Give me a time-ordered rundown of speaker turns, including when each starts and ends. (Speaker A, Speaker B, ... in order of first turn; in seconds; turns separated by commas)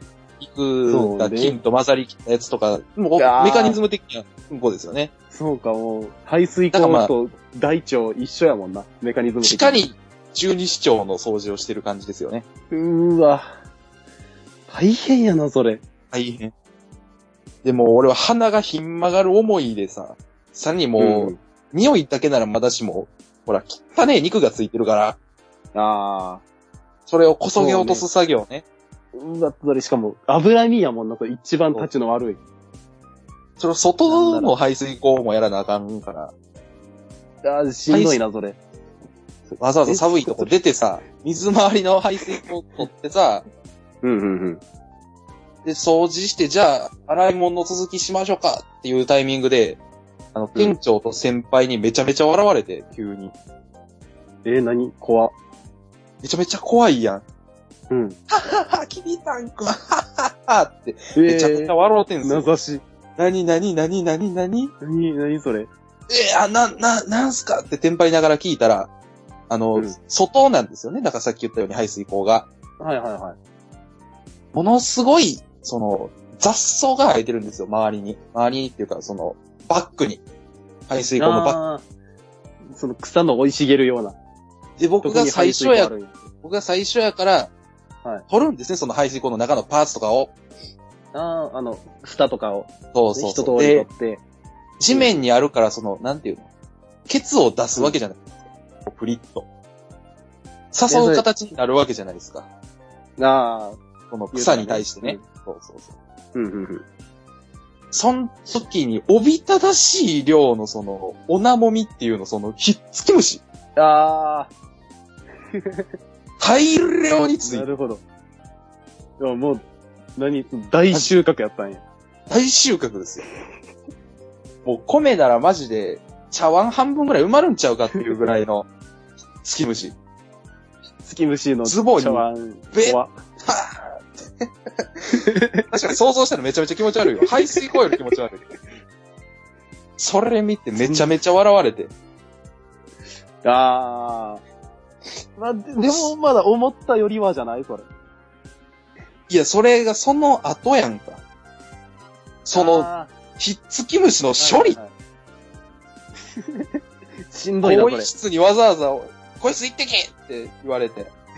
Speaker A: 0.4-5.1, Speaker B: 0.9-1.6, Speaker B: 3.2-3.8, Speaker B: 5.3-9.8, Speaker A: 6.7-7.1, Speaker A: 9.4-12.4, Speaker B: 12.7-13.5, Speaker B: 14.7-15.8, Speaker A: 16.1-16.5, Speaker A: 17.6-25.2, Speaker B: 21.0-21.4, Speaker B: 25.7-26.4, Speaker A: 27.1-28.6, Speaker B: 27.5-28.0, Speaker B: 29.1-32.4, Speaker A: 33.6-36.3, Speaker B: 34.1-34.5, Speaker B: 37.4-38.6, Speaker A: 37.9-38.2, Speaker A: 39.6-43.5, Speaker B: 39.8-40.5, Speaker B: 44.0-44.6, Speaker A: 45.6-49.8, Speaker A: 50.3-53.3, Speaker B: 54.4-55.3, Speaker A: 56.2-57.2, Speaker B: 57.9-58.2, Speaker A: 58.3-62.5, Speaker B: 61.1-62.8, Speaker A: 63.2-64.7, Speaker B: 64.8-65.7, Speaker A: 66.1-68.9, Speaker A: 69.5-72.5, Speaker B: 72.8-73.4, Speaker A: 74.5-80.2, Speaker A: 80.9-81.6, Speaker B: 81.2-81.8, Speaker B: 82.7-84.2, Speaker A: 84.8-87.5, Speaker B: 85.0-86.3, Speaker A: 88.3-90.3, Speaker B: 91.1-94.2, Speaker A: 92.9-93.9, Speaker A: 94.8-96.5, Speaker B: 94.9-95.2, Speaker A: 97.1-98.3, Speaker A: 98.8-99.5, Speaker A: 100.7-102.5, Speaker B: 100.9-101.3, Speaker B: 103.2-103.8, Speaker A: 104.1-105.9, Speaker B: 104.3-105.2, Speaker B: 106.3-106.8, Speaker A: 107.9-113.4, Speaker B: 113.8-114.5, Speaker B: 115.6-115.9, Speaker A: 116.4-117.7, Speaker B: 117.4-118.0, Speaker B: 119.2-119.6, Speaker B: 120.2-121.8, Speaker A: 122.3-123.2, Speaker A: 124.6-128.7, Speaker A: 129.4-129.9, Speaker B: 131.0-133.2, Speaker A: 131.6-134.5, Speaker B: 135.3-135.6, Speaker A: 135.7-138.4, Speaker A: 140.0-141.9, Speaker B: 140.8-141.1, Speaker B: 143.4-144.4, Speaker B: 145.3-147.9, Speaker A: 149.3-151.2, Speaker A: 152.4-154.8, Speaker B: 152.5-153.1, Speaker B: 154.4-154.9, Speaker B: 156.3-156.7, Speaker B: 157.3-158.1, Speaker A: 157.6-161.1